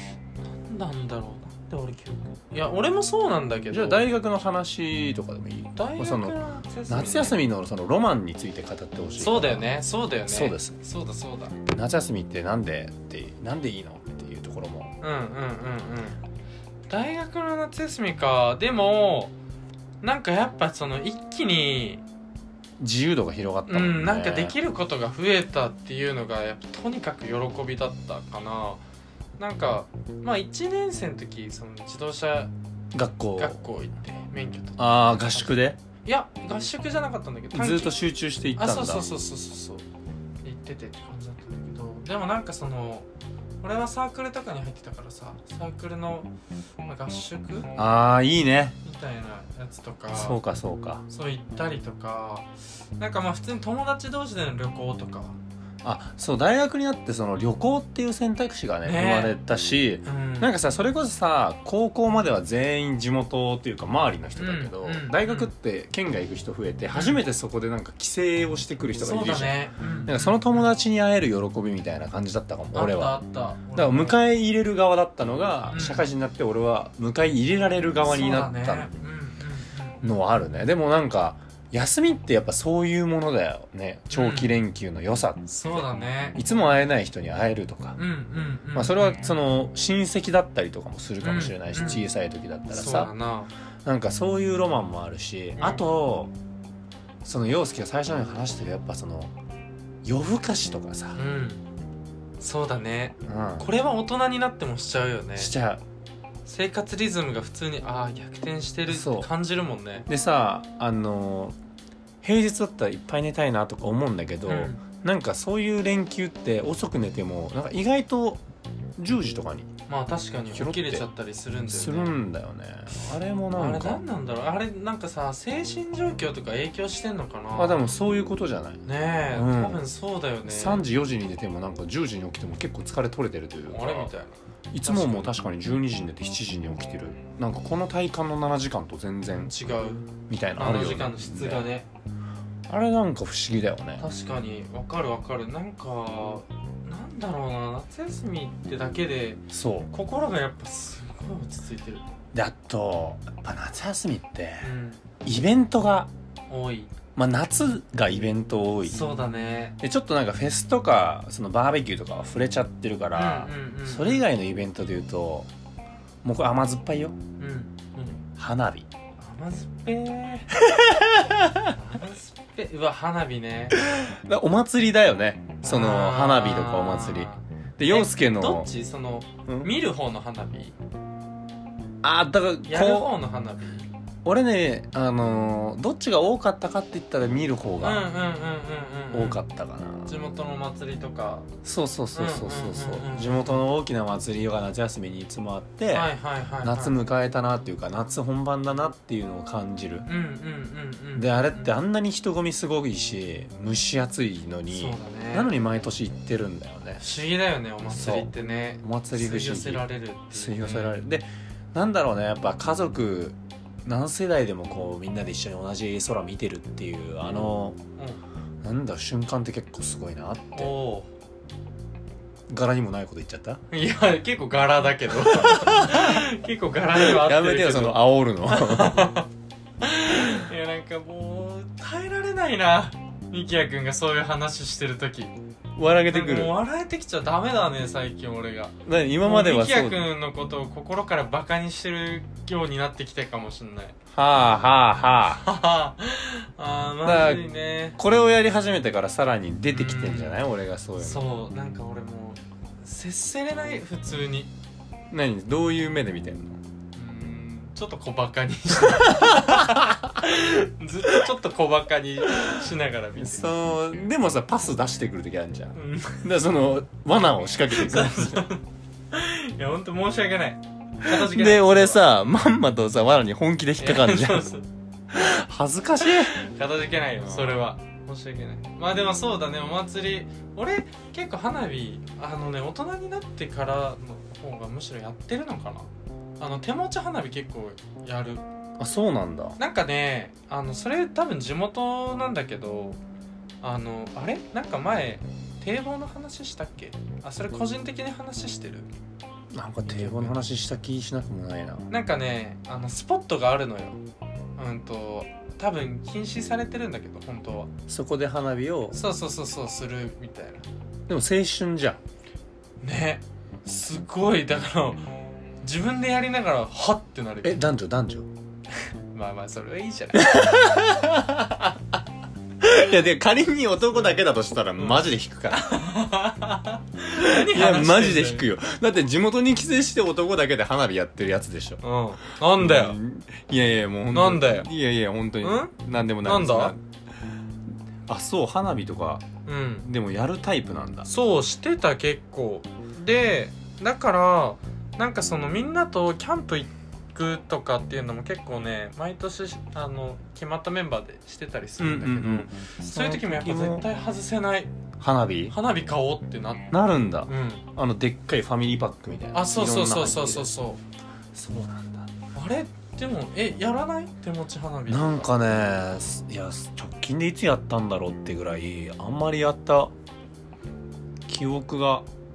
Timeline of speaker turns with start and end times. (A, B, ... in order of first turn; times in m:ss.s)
0:00.5-0:04.0 A
0:03.7-0:09.7 B
0:05.8-0:07.4 A
0:09.2-0:11.6 A
0:10.3-0:10.8 B
0:11.7-0:15.0 B
0:15.0-0:16.2 A
0:16.9-0:19.3 A
0:20.0-0:22.0 A
0:22.8-0:24.6 B
0:23.7-0:28.8 A
0:29.4-0:32.5 A
0:32.9-0:33.6 B
0:33.4-0:35.5 A
0:34.8-0:35.8 B
0:36.0-0:38.0 A
0:37.5-0:39.1 B
0:38.6-0:39.8 A
0:40.4-0:43.1 A
0:43.6-0:46.3 A
0:46.8-0:47.7 A
0:47.8-0:48.8 B
0:48.8-0:50.4 A
0:50.1-0:51.0 B
0:51.1-0:55.4 A
0:55.8-1:13.2 B
0:58.8-0:59.4 A
1:00.0-1:00.5 A
1:04.4-1:05.5 A
1:06.9-1:07.2 A
1:09.0-1:10.7 A
1:12.7-1:14.2 A
1:13.8-1:18.9 B
1:15.7-1:16.1 A
1:18.0-1:20.2 A
1:20.0-1:28.0 B
1:24.1-1:24.5 A
1:25.5-1:26.4 A
1:28.0-1:29.4 A
1:28.7-1:33.1 B
1:31.2-1:32.0 A
1:32.7-1:33.5 A
1:33.8-1:36.3 B
1:35.6-1:35.8 A
1:37.2-1:39.3 B
1:40.0-1:41.2 B
1:41.2-1:41.6 A
1:42.4-1:45.5 A
1:43.3-1:43.7 B
1:45.4-1:45.8 B
1:46.5-1:50.1 A
1:48.9-1:49.3 B
1:50.1-1:51.6 B
1:52.2-1:58.4 B
1:54.5-1:54.8 A
1:59.0-1:59.7 B
1:59.9-2:02.2 A
2:00.5-2:01.1 B
2:01.7-2:04.0 B
2:03.5-2:07.8 A
2:07.6-2:09.8 B
2:08.8-2:10.8 A
2:10.5-2:14.1 B
2:13.7-2:15.3 A
2:14.7-2:19.5 B
2:19.4-2:21.9 A
2:20.3-2:21.7 B
2:22.7-2:24.0 B
2:24.0-2:32.0 A
2:29.5-2:29.9 B
2:32.3-2:34.7 B
2:34.6-2:35.0 A
2:35.2-2:36.1 B
2:36.5-2:36.9 A
2:37.2-2:39.1 B
2:38.9-2:39.8 A
2:39.8-2:45.5 B
2:43.1-2:44.3 A
2:46.2-2:47.2 B
2:47.4-2:48.2 A
2:48.4-2:48.9 B
2:49.2-2:50.5 A
2:50.6-2:51.8 B
2:51.7-2:53.8 A
2:53.7-2:58.7 B
2:55.6-3:00.8 A
3:02.0-3:03.1 B
3:02.6-3:03.9 A
3:04.2-3:08.1 B
3:07.8-3:09.4 A
3:09.1-3:10.2 B
3:10.1-3:11.5 A
3:11.6-3:20.1 B
3:12.1-3:13.6 A
3:15.9-3:17.0 A
3:20.1-3:21.7 A
3:21.2-3:27.0 B
3:24.7-3:25.5 A
3:27.0-3:31.0 A
3:27.9-3:37.8 B
3:38.6-3:40.8 B
3:40.5-3:41.1 A
3:42.5-3:43.6 B
3:43.7-3:49.3 A
3:45.2-3:46.3 B
3:47.0-3:49.2 B
3:49.8-3:55.3 A
3:55.8-3:56.6 B
3:56.1-4:04.0 A
3:58.8-4:00.1 B
4:04.1-4:05.4 B
4:05.4-4:08.0 A
4:07.0-4:07.5 B
4:08.0-4:11.3 B
4:09.7-4:10.4 A
4:11.0-4:14.5 A
4:15.1-4:16.6 B
4:17.0-4:23.5 A
4:18.8-4:20.2 B
4:22.3-4:22.6 B
4:23.2-4:28.5 B
4:25.8-4:26.3 A
4:27.7-4:32.0 A
4:31.0-4:34.5 B
4:33.8-4:34.6 A
4:35.1-4:36.4 B
4:36.0-4:48.4 A
4:37.2-4:37.6 B
4:48.8-4:49.6 B
4:49.6-4:53.0 A
4:53.6-4:58.9 A
4:59.5-5:01.9 B
4:59.9-5:00.4 A
5:01.9-5:04.0 A
5:04.6-5:07.7 A
5:07.9-5:09.0 B
5:08.9-5:10.6 A
5:11.1-5:12.0 B
5:12.8-5:17.6 A
5:17.4-5:18.3 B
5:19.1-5:20.6 A
5:20.2-5:21.8 B
5:22.6-5:25.8 B
5:24.8-5:28.5 A
5:27.1-5:31.8 B
5:31.8-5:33.0 A
5:32.6-5:36.8 B
5:34.1-5:34.7 A
5:35.4-5:36.7 A
5:38.1-5:39.2 B
5:39.5-5:39.9 A
5:39.8-5:41.1 B
5:41.1-5:54.7 A
5:51.8-5:53.8 B
5:55.0-5:55.6 B
5:55.5-5:56.7 A
5:56.7-6:00.5 B
5:57.3-5:57.6 A
5:59.3-6:00.8 A
6:01.4-6:02.1 B
6:02.3-6:05.3 A
6:04.9-6:09.9 B
6:11.3-6:12.1 B